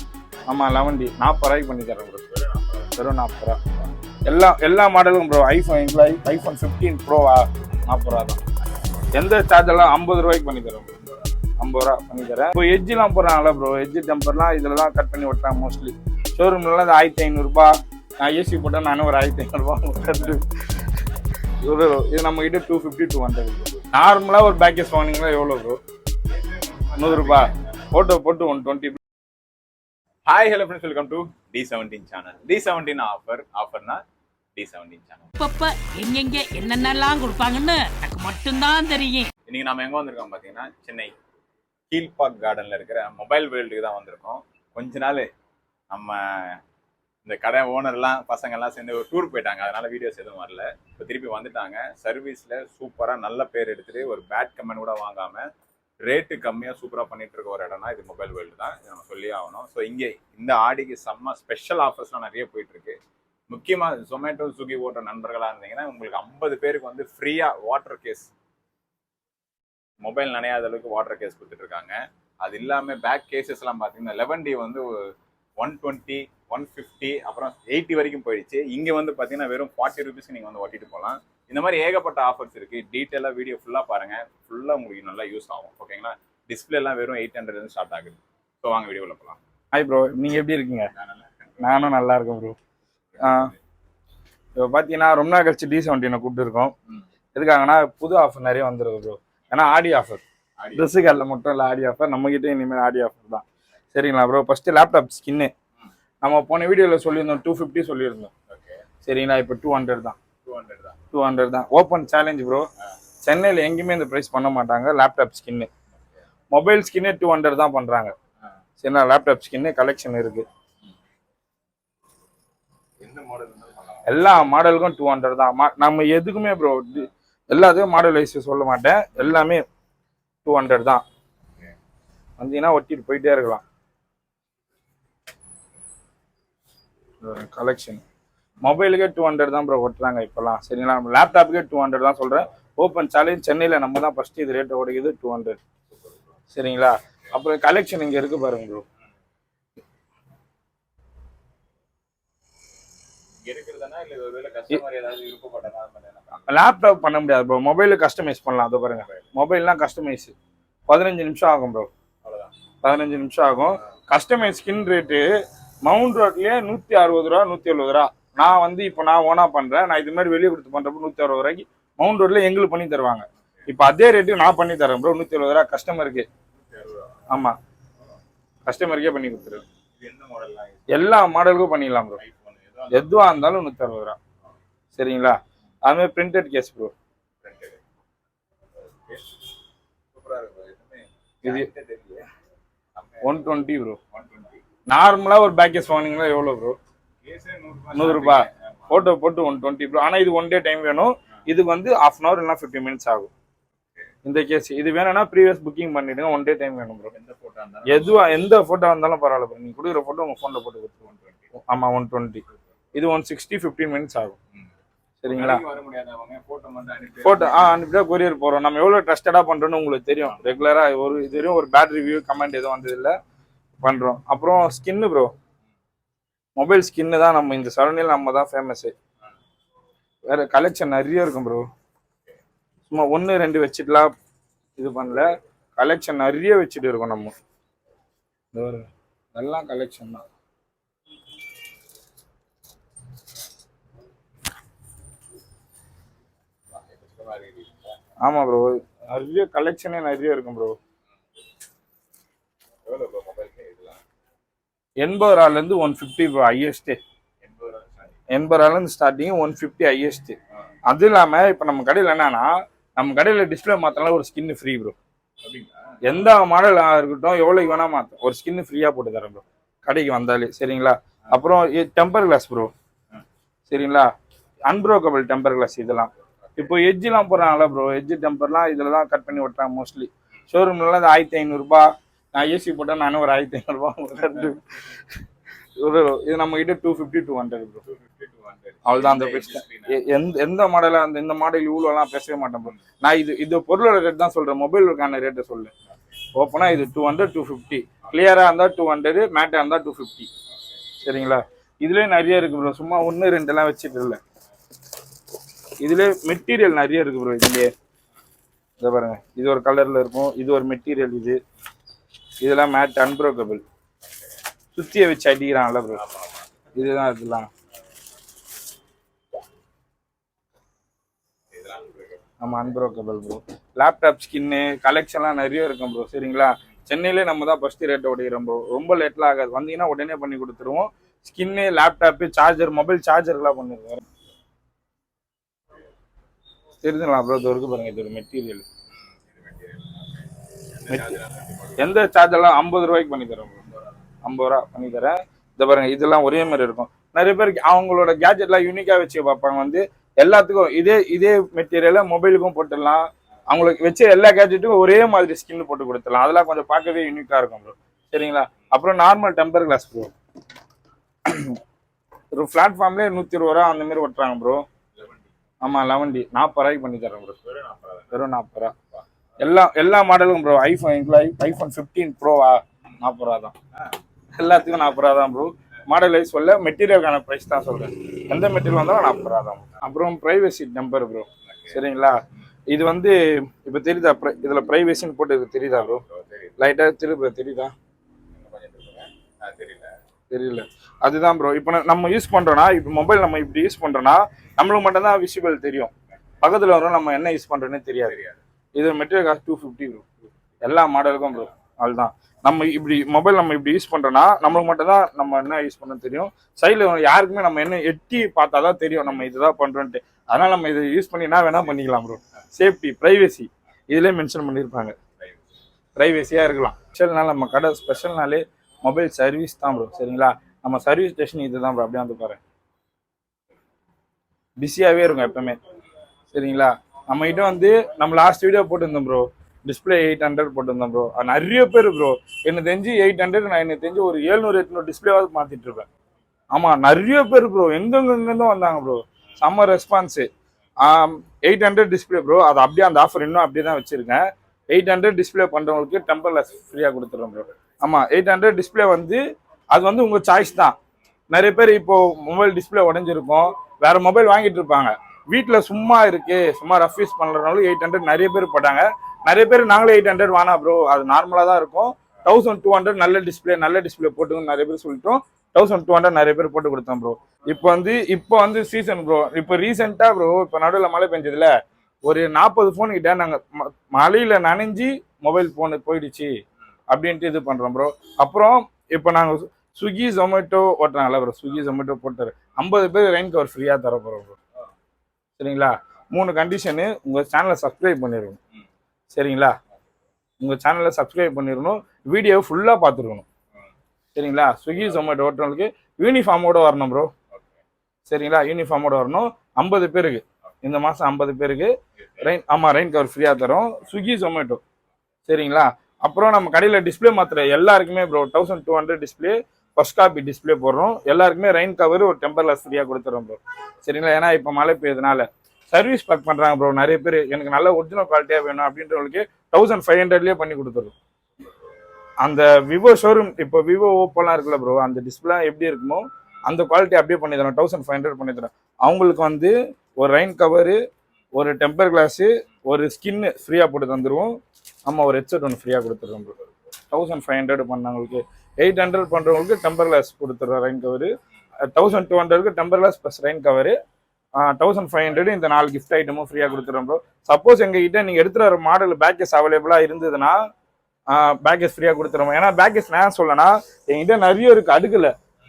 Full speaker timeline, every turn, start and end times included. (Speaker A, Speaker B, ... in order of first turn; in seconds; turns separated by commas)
Speaker A: 0.5-2.3, Speaker B: 2.3-2.9, Speaker A: 3.0-3.6, Speaker A: 4.2-8.4, Speaker A: 9.1-10.9, Speaker A: 11.6-20.4, Speaker A: 21.6-25.8, Speaker B: 26.7-27.5, Speaker A: 26.9-29.0, Speaker B: 30.2-34.0, Speaker B: 34.5-35.3, Speaker C: 35.4-39.3, Speaker B: 39.5-41.1, Speaker B: 41.9-45.3, Speaker B: 45.9-46.6, Speaker B: 47.2-55.5, Speaker B: 56.0-63.0, Speaker B: 63.5-68.3, Speaker B: 70.0-74.9, Speaker B: 75.6-89.4, Speaker A: 89.7-90.9, Speaker B: 90.9-91.3, Speaker A: 91.6-92.5, Speaker B: 93.1-93.6, Speaker A: 93.2-93.5, Speaker A: 94.5-96.7, Speaker A: 97.3-100.2, Speaker B: 100.6-100.9, Speaker A: 100.7-105.5, Speaker A: 106.2-108.3, Speaker B: 108.5-108.8, Speaker A: 109.0-110.2, Speaker B: 110.4-111.0, Speaker A: 111.1-112.7, Speaker A: 113.2-115.7, Speaker A: 116.5-118.1, Speaker A: 118.8-120.4, Speaker B: 123.0-124.1, Speaker A: 124.0-129.6, Speaker A: 130.4-131.0, Speaker A: 132.4-133.6, Speaker A: 137.2-138.0, Speaker A: 138.6-145.6, Speaker A: 146.5-148.8, Speaker B: 153.4-156.5, Speaker A: 156.5-160.3, Speaker B: 158.9-159.3, Speaker A: 160.9-161.9, Speaker B: 162.2-162.5, Speaker A: 162.8-165.2, Speaker A: 165.8-176.3, Speaker B: 176.5-177.3, Speaker A: 177.3-177.6, Speaker A: 178.7-179.6, Speaker B: 180.0-181.2, Speaker A: 180.9-182.2, Speaker B: 182.2-183.1, Speaker A: 182.9-184.2, Speaker A: 184.9-186.9, Speaker B: 187.4-187.8, Speaker B: 189.1-189.4, Speaker B: 190.1-192.3, Speaker B: 192.9-193.4, Speaker A: 193.2-194.0, Speaker B: 194.1-194.6, Speaker A: 194.9-196.8, Speaker B: 197.2-199.1, Speaker A: 197.9-203.3, Speaker A: 204.2-207.1, Speaker B: 207.1-208.4, Speaker A: 207.9-211.0, Speaker B: 211.1-211.4, Speaker A: 211.5-212.4, Speaker A: 212.9-214.4, Speaker A: 215.2-215.6, Speaker B: 215.3-217.8, Speaker A: 217.2-223.2, Speaker A: 223.8-225.3, Speaker A: 226.6-228.9, Speaker A: 230.3-231.7, Speaker A: 232.9-234.1, Speaker A: 234.8-237.3, Speaker A: 238.5-240.2, Speaker B: 246.7-247.9, Speaker A: 248.2-250.8, Speaker B: 252.8-254.0, Speaker A: 255.0-257.0, Speaker B: 257.4-258.2, Speaker A: 258.3-260.4, Speaker A: 260.9-264.9, Speaker B: 265.4-265.7, Speaker A: 266.0-272.7, Speaker A: 273.7-274.1, Speaker A: 274.7-285.0, Speaker A: 285.8-287.8, Speaker B: 287.8-290.0, Speaker A: 288.8-295.7, Speaker A: 296.3-300.3, Speaker A: 301.0-304.2, Speaker A: 305.8-307.7, Speaker A: 308.8-311.4, Speaker A: 312.4-313.6, Speaker A: 314.7-316.0, Speaker B: 315.9-316.4, Speaker A: 316.7-317.5, Speaker B: 321.5-322.2, Speaker A: 322.4-334.0, Speaker A: 336.8-338.6, Speaker B: 339.3-342.0, Speaker A: 341.8-343.6, Speaker A: 344.2-360.1, Speaker A: 361.2-361.6, Speaker A: 362.3-364.6, Speaker A: 365.6-367.4, Speaker B: 367.4-368.1, Speaker A: 368.1-368.7, Speaker A: 369.4-373.5, Speaker A: 374.4-382.2, Speaker B: 381.5-381.8, Speaker A: 382.7-386.0, Speaker B: 385.8-386.5, Speaker A: 386.6-387.7, Speaker B: 388.3-389.9, Speaker A: 390.3-395.9, Speaker A: 396.4-398.2, Speaker B: 398.0-398.4, Speaker A: 398.8-400.1, Speaker A: 400.6-414.9, Speaker A: 415.9-422.4, Speaker A: 424.6-425.6, Speaker A: 426.3-435.9, Speaker A: 436.5-440.3, Speaker A: 440.8-449.2, Speaker A: 449.7-450.7, Speaker A: 451.3-471.5, Speaker A: 472.0-476.3, Speaker A: 476.9-484.4, Speaker A: 485.4-488.4, Speaker A: 489.1-489.6, Speaker A: 490.4-493.2, Speaker A: 494.1-497.1, Speaker B: 497.3-497.6, Speaker A: 498.1-504.6, Speaker A: 505.3-520.9, Speaker A: 522.2-530.8, Speaker A: 531.3-534.3, Speaker A: 534.9-536.3, Speaker A: 536.9-541.1, Speaker A: 541.7-543.8, Speaker A: 544.4-550.4, Speaker A: 551.1-555.1